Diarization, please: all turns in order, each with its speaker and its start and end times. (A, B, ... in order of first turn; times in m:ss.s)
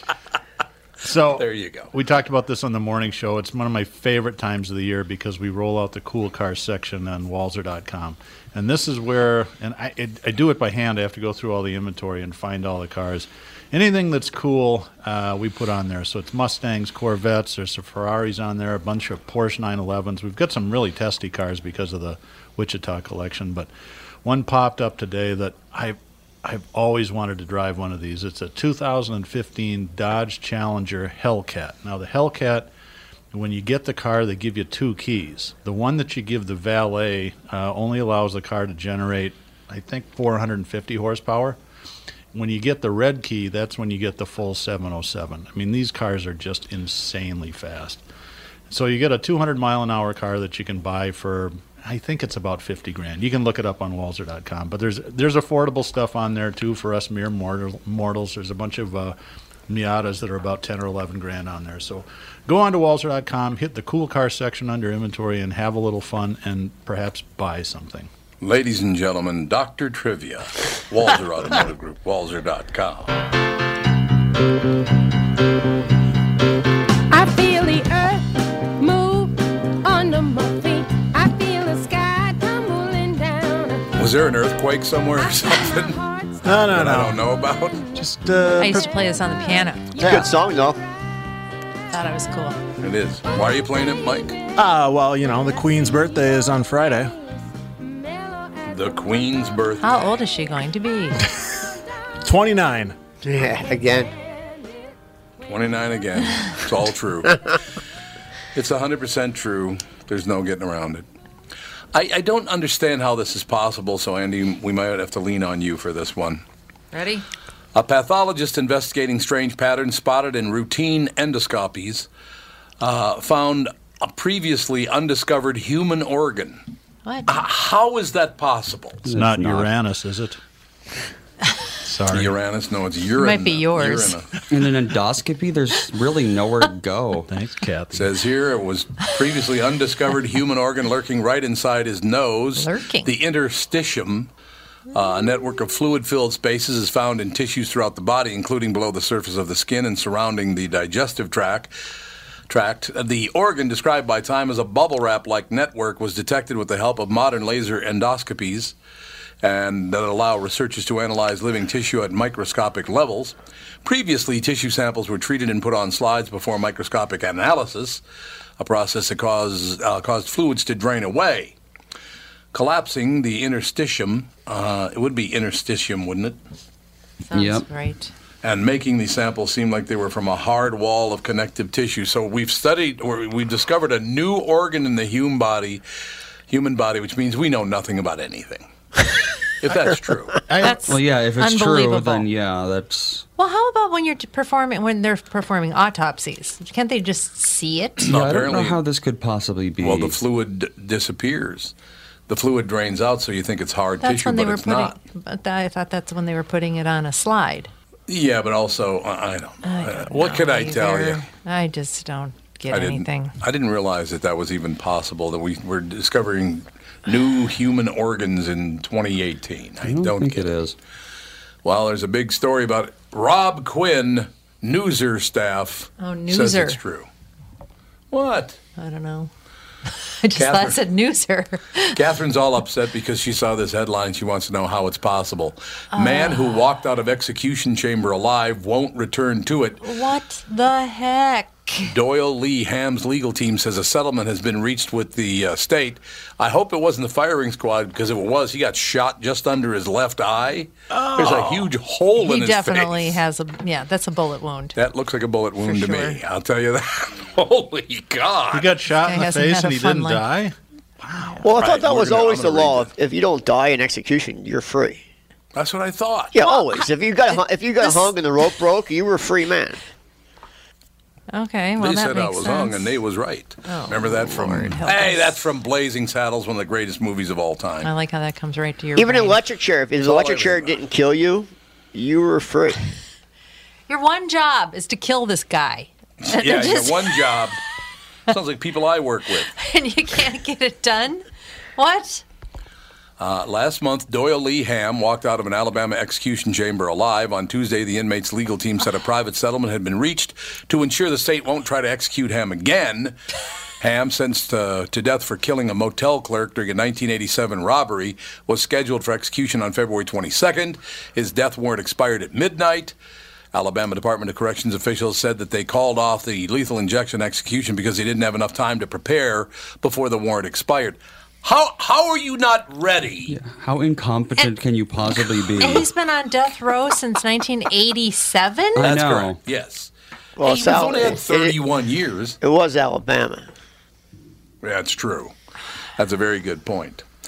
0:01.0-0:23.7 A
0:01.4-0:01.9 B
0:24.2-0:32.7 A
0:33.3-0:41.6 A
0:42.3-0:48.0 A
0:48.7-0:59.2 A
0:59.7-1:08.1 A
1:08.4-1:13.1 B
1:17.1-1:23.9 C
1:24.0-1:26.0 B
1:25.3-1:26.4 C
1:26.4-1:27.2 D
1:26.7-1:27.8 B
1:28.0-1:28.9 D
1:28.6-1:30.0 E
1:30.0-1:30.8 F
1:31.9-1:32.6 E
1:32.8-1:34.4 B
1:34.6-1:37.2 D
1:38.7-1:40.1 B
1:39.8-1:41.2 E
1:42.2-1:43.0 D
1:43.2-1:44.1 F
1:45.5-1:47.4 B
1:48.5-1:51.1 B
1:51.9-1:56.4 B
1:56.9-1:57.2 E
1:57.7-2:02.1 B
2:02.8-2:06.6 B
2:07.3-2:09.0 B
2:09.0-2:09.7 G
2:09.1-2:10.4 A
2:11.8-2:12.3 A
2:12.1-2:14.3 B
2:13.2-2:14.2 E
2:14.5-2:17.3 G
2:17.3-2:18.1 A
2:17.9-2:24.3 B
2:22.6-2:23.1 E
2:24.9-2:31.7 B
2:32.5-2:38.8 B
2:39.4-2:48.0 B
2:48.6-2:51.6 B
2:52.5-2:56.4 B
2:57.3-2:58.1 E
2:57.3-2:57.6 G
2:58.4-3:05.8 B
3:06.5-3:08.7 B
3:09.6-3:10.4 B
3:10.5-3:10.8 A
3:10.6-3:12.3 E
3:10.8-3:13.2 G
3:13.4-3:18.1 E
3:18.0-3:18.8 B
3:18.1-3:20.2 G
3:19.8-3:21.7 B
3:22.3-3:25.0 B
3:24.0-3:27.7 E
3:28.1-3:31.2 B
3:29.6-3:33.3 E
3:32.7-3:40.5 B
3:39.8-3:40.8 G
3:41.6-3:47.1 B
3:46.0-3:46.8 E
3:48.1-3:48.6 B
3:48.8-3:49.3 E
3:49.9-3:52.0 E
3:50.4-3:50.8 B
3:52.0-3:59.8 B
3:55.9-3:56.6 E
3:59.8-4:01.9 E
4:01.8-4:13.2 B
4:10.9-4:11.7 A
4:12.2-4:14.8 E
4:14.8-4:18.7 B
4:15.6-4:16.2 E
4:18.5-4:21.5 A
4:19.0-4:20.2 E
4:21.2-4:21.4 E
4:21.4-4:25.0 F
4:21.6-4:22.9 B
4:25.6-4:26.3 B
4:26.3-4:29.8 F
4:27.8-4:28.1 E
4:31.3-4:32.9 E
4:31.8-4:37.9 B
4:33.6-4:35.4 E
4:37.8-4:39.4 E
4:39.0-4:42.9 F
4:40.0-4:40.8 B
4:43.9-4:47.4 E
4:46.2-4:47.6 B
4:48.3-4:49.5 B
4:49.6-4:51.2 E
4:51.8-4:52.2 E
4:53.2-5:03.2 B
5:03.8-5:13.0 B
5:13.5-5:23.3 B
5:23.3-5:25.9 G
5:25.6-5:28.8 E
5:28.8-5:29.4 G
5:28.8-5:32.4 B
5:30.4-5:31.6 F
5:32.4-5:33.5 F
5:34.6-5:35.3 B
5:36.0-5:37.0 B